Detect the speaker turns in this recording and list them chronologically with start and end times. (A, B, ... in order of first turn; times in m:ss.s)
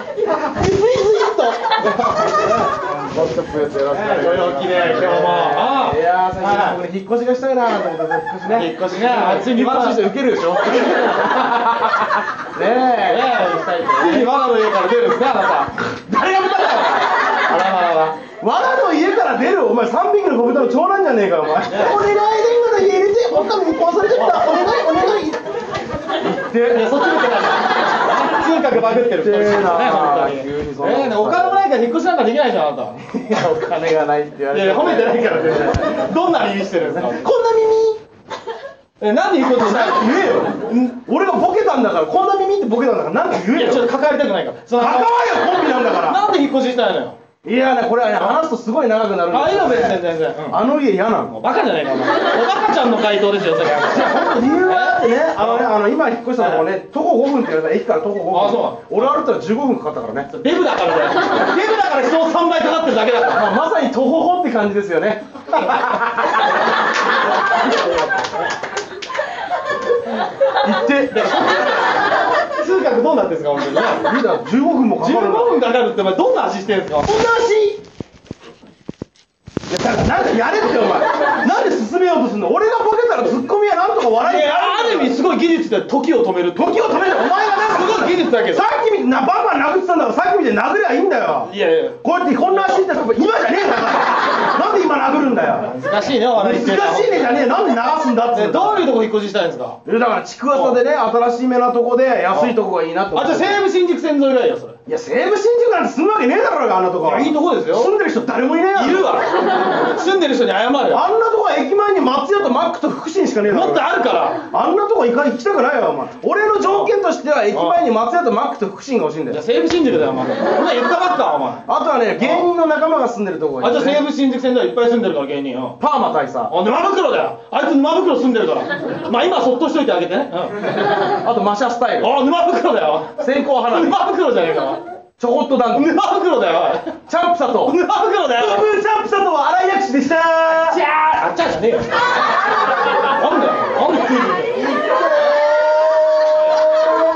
0:00.5-0:02.6 A
0:00.7-0:14.3 B
0:03.9-0:06.8 A
0:08.5-0:10.1 A
0:10.7-0:11.6 A
0:12.9-0:18.2 A
0:16.1-0:17.0 B
0:18.4-0:25.4 B
0:21.7-0:22.0 A
0:24.1-0:25.4 A
0:26.2-0:26.9 B
0:26.6-0:33.0 A
0:28.9-0:31.6 B
0:33.1-0:36.0 B
0:34.5-0:37.3 A
0:36.9-0:38.0 B
0:39.0-0:40.9 A
0:39.5-0:43.9 B
0:43.4-0:47.2 A
0:44.8-0:46.2 B
0:47.4-0:51.3 B
0:49.3-0:50.6 A
0:51.3-0:55.7 A
0:53.8-1:00.3 B
0:56.4-0:56.6 A
0:58.3-0:59.1 A
1:00.3-1:03.5 A
1:03.3-1:06.4 B
1:05.5-1:05.9 A
1:07.7-1:08.3 A
1:10.6-1:11.5 B
1:11.1-1:14.1 A
1:14.0-1:15.6 B
1:15.0-1:17.1 A
1:17.1-1:17.8 B
1:19.7-1:25.2 B
1:24.2-1:28.6 A
1:26.5-1:31.5 B
1:31.4-1:32.8 A
1:32.0-1:35.7 B
1:35.6-1:37.5 A
1:36.3-1:38.9 B
1:38.3-1:39.8 A
1:39.8-1:43.6 B
1:40.5-1:40.8 A
1:42.3-1:42.6 A
1:43.1-1:44.8 A
1:44.9-1:49.2 B
1:47.0-1:47.9 A
1:48.7-1:51.1 A
1:50.9-1:53.9 B
1:53.4-1:54.4 A
1:54.5-1:59.4 B
1:56.6-1:56.9 A
1:57.5-1:57.8 A
1:59.3-2:01.6 A
2:01.7-2:04.0 B
2:02.2-2:02.5 A
2:03.6-2:05.8 A
2:05.8-2:06.5 B
2:06.5-2:10.9 A
2:11.0-2:12.2 B
2:12.0-2:14.8 A
2:13.2-2:14.1 B
2:15.2-2:15.9 B
2:15.7-2:17.0 A
2:17.1-2:17.8 B
2:17.6-2:18.7 A
2:18.4-2:20.8 B
2:20.6-2:22.1 A
2:22.8-2:24.7 A
2:24.8-2:26.6 B